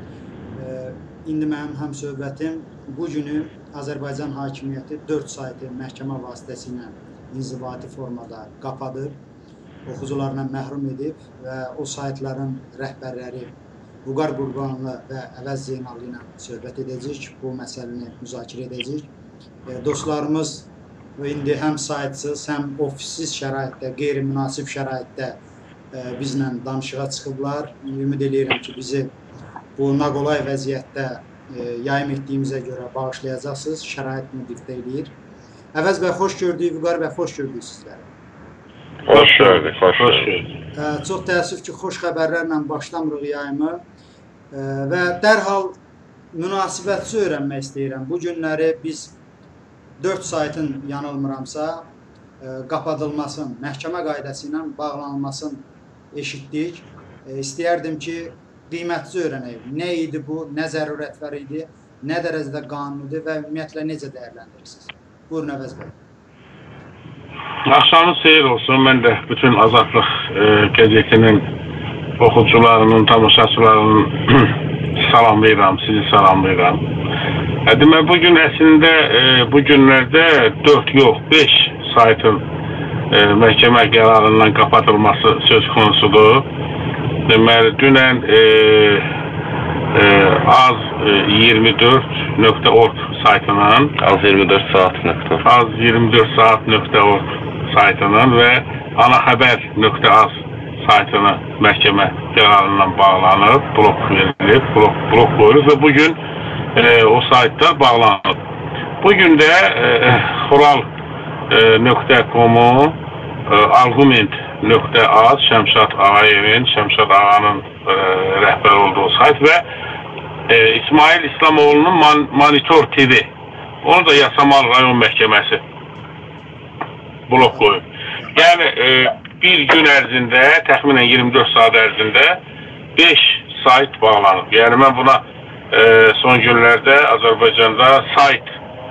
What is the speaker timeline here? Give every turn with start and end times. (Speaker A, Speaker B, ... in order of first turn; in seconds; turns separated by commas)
Speaker A: 0.6-9.2, Speaker A: 9.9-19.1, Speaker A: 19.7-25.4, Speaker A: 25.9-29.1, Speaker A: 29.8-35.1, Speaker A: 35.8-38.1, Speaker B: 39.1-40.3, Speaker C: 39.1-40.5, Speaker A: 40.8-43.8, Speaker A: 44.5-45.8, Speaker A: 46.3-49.2, Speaker A: 50.0-51.9, Speaker A: 52.4-66.0, Speaker C: 67.7-71.5, Speaker C: 72.2-76.8, Speaker C: 77.7-82.4, Speaker C: 83.1-86.5, Speaker C: 87.3-89.1, Speaker C: 89.9-94.0, Speaker B: 94.0-95.4, Speaker C: 95.4-106.2, Speaker C: 106.8-108.4, Speaker C: 109.0-110.9, Speaker C: 111.5-119.6, Speaker C: 120.5-123.3, Speaker C: 123.8-125.6, Speaker C: 127.3-127.8, Speaker C: 128.3-132.4, Speaker C: 133.0-138.6